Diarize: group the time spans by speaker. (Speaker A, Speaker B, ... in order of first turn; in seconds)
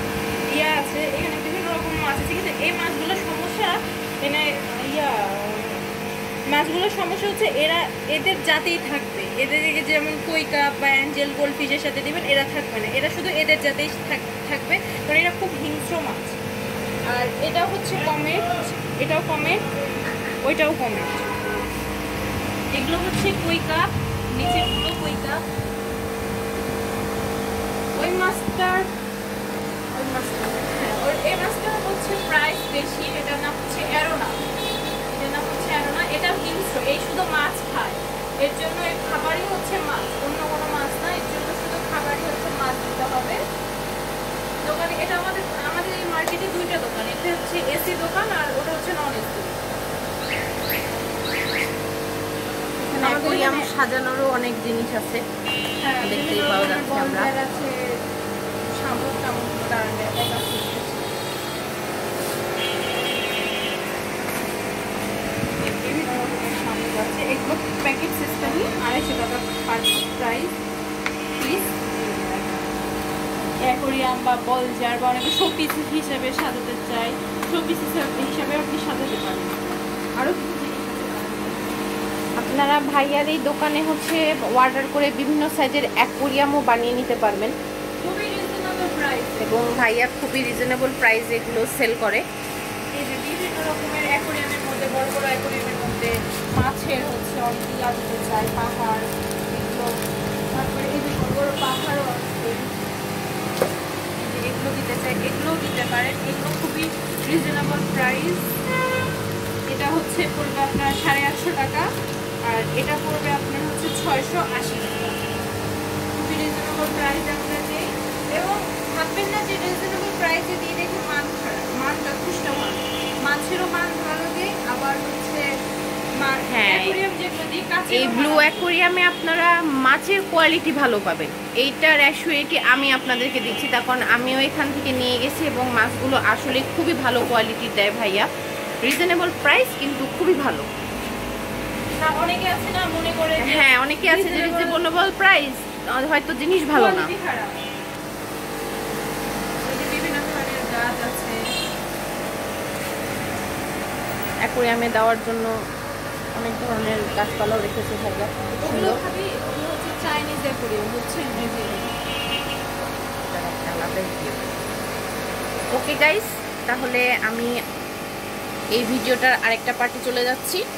Speaker A: 0.5-5.8, 6.5-16.4, 17.1-19.6, 20.4-21.3, 22.7-25.4, 27.9-28.9, 29.9-34.3, 35.1-43.4, 44.7-49.6, 53.0-53.7, 55.8-57.7, 58.8-61.2, 65.7-70.5, 71.4-72.8, 73.7-81.7, 88.0-89.5, 93.0-100.0, 100.5-102.7, 104.2-108.5, 109.7-111.9, 112.5-115.5, 116.2-125.4, 126.2-128.6, 142.0-144.8, 146.7-147.7, 149.7-151.4, 158.7-161.9
Speaker B: 52.9-55.2, 56.0-57.3, 82.4-87.5, 89.4-92.2, 126.5-127.0, 127.9-138.3, 138.8-140.7, 143.4-147.1, 154.5-155.5, 156.4-159.0, 163.3-164.4, 165.7-167.5, 168.8-170.6